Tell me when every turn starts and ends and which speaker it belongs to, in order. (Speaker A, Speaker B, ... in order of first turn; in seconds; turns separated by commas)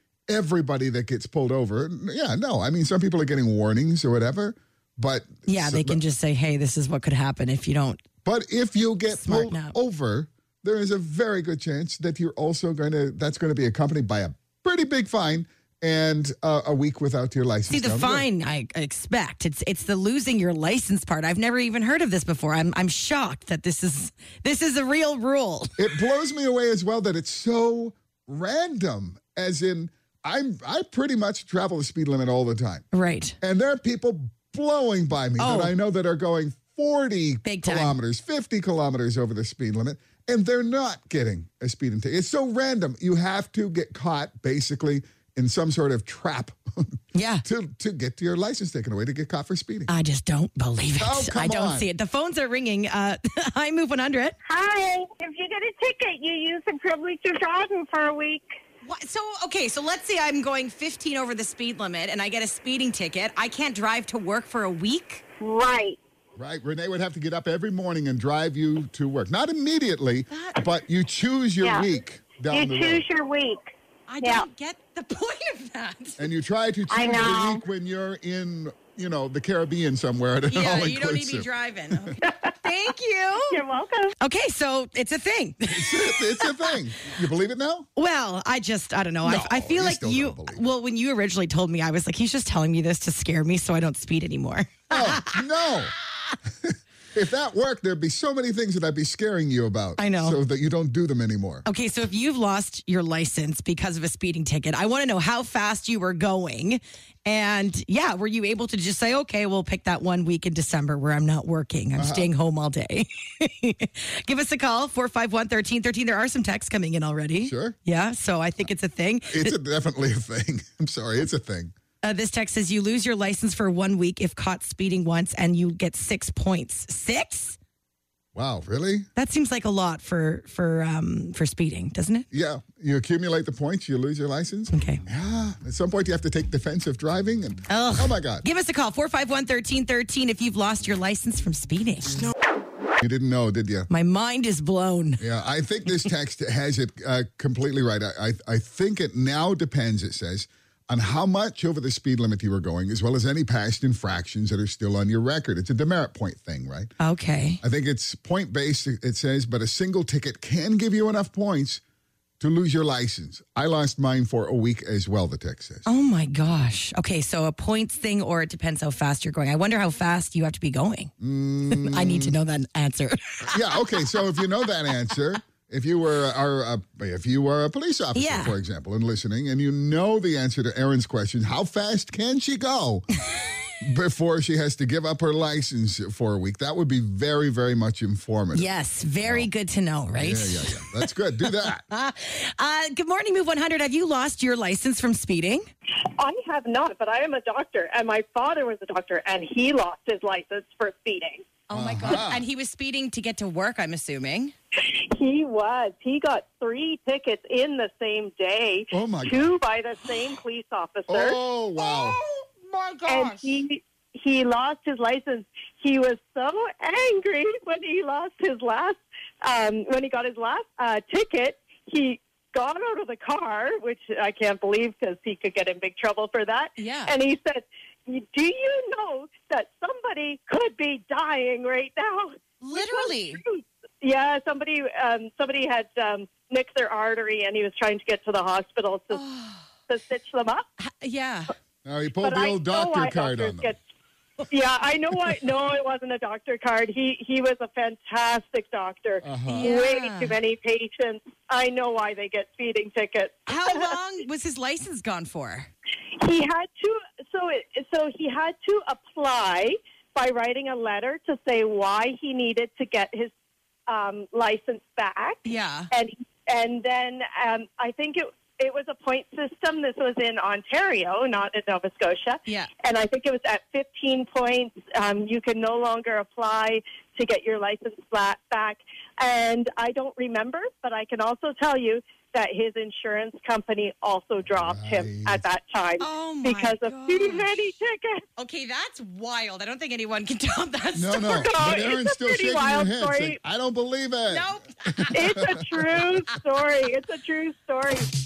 Speaker A: 0.3-6.0, Speaker B: 5.5-8.0, Speaker A: 8.2-18.2, Speaker B: 9.1-9.7, Speaker B: 17.7-25.8, Speaker A: 25.8-32.9, Speaker B: 32.9-33.4, Speaker A: 33.4-49.9, Speaker B: 35.4-35.7, Speaker B: 37.4-37.9, Speaker B: 47.1-47.4, Speaker B: 49.9-54.4, Speaker A: 51.0-51.9, Speaker C: 54.5-58.4, Speaker B: 58.8-65.2, Speaker C: 65.4-66.0, Speaker A: 66.3-73.0, Speaker B: 70.3-70.6, Speaker C: 72.5-73.6, Speaker B: 74.1-76.3, Speaker A: 76.2-82.1, Speaker C: 76.9-77.5, Speaker B: 80.5-83.6, Speaker D: 83.5-84.1, Speaker B: 84.2-86.7, Speaker A: 85.7-87.9, Speaker B: 88.0-95.4, Speaker A: 89.2-90.7, Speaker A: 94.9-95.9, Speaker A: 96.5-101.7, Speaker B: 100.0-100.4, Speaker B: 101.6-119.5, Speaker A: 112.0-112.3, Speaker A: 117.4-117.8, Speaker A: 119.3-121.7, Speaker B: 122.0-127.6, Speaker A: 128.3-129.1, Speaker B: 129.2-132.2, Speaker A: 132.3-138.4, Speaker B: 134.7-135.0, Speaker B: 137.7-142.2, Speaker A: 143.0-143.9, Speaker B: 143.9-145.2, Speaker A: 145.2-156.9, Speaker B: 157.0-157.6, Speaker A: 157.6-161.8, Speaker A: 162.4-165.8, Speaker B: 165.8-171.1, Speaker A: 171.2-172.3, Speaker B: 171.7-174.0, Speaker A: 173.5-183.1, Speaker B: 178.1-178.5, Speaker A: 183.8-188.7, Speaker B: 188.5-195.7, Speaker A: 189.2-189.5, Speaker A: 190.1-191.8, Speaker D: 196.2-201.5, Speaker B: 201.7-204.5, Speaker A: 201.7-202.4, Speaker D: 204.8-211.4, Speaker A: 208.9-209.6, Speaker A: 211.1-212.2, Speaker B: 212.7-213.4, Speaker D: 213.1-239.2, Speaker B: 226.8-227.1, Speaker B: 232.6-233.4, Speaker B: 239.1-239.6, Speaker D: 239.9-240.6, Speaker B: 240.8-241.5, Speaker A: 241.8-243.7, Speaker D: 242.2-243.8, Speaker D: 244.5-253.9, Speaker A: 249.2-249.8, Speaker B: 249.5-250.3, Speaker B: 253.5-255.7, Speaker D: 256.2-263.3, Speaker D: 263.9-288.2, Speaker B: 265.4-265.9, Speaker A: 284.5-285.4, Speaker B: 286.0-287.5, Speaker B: 288.4-291.5, Speaker A: 290.9-296.0, Speaker D: 291.3-293.4, Speaker B: 294.3-295.2, Speaker D: 295.1-298.1